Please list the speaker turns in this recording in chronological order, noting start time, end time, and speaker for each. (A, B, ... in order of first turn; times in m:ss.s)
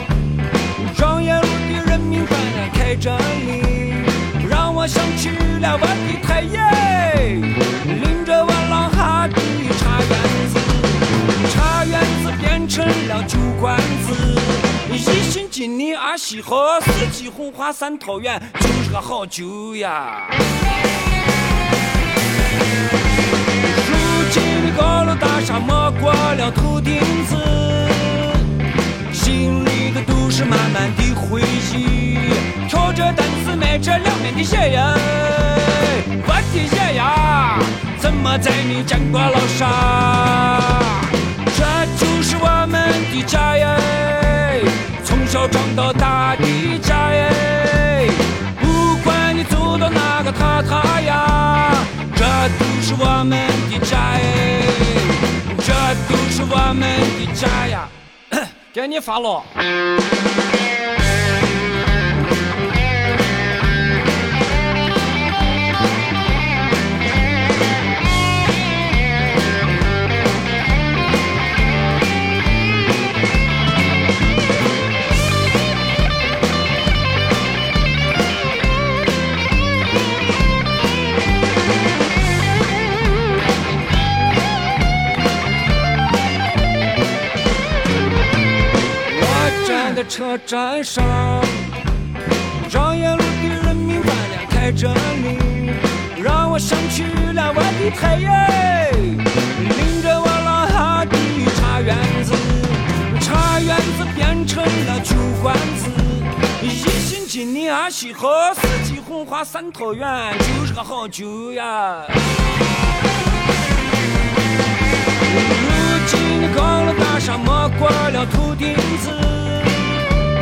0:00.8-0:20.4 A
0:23.6-0:28.4 A
0:29.1-0:59.5 A
1:29.1-1:31.7 A
1:32.6-1:52.2 A
1:55.2-2:00.0 A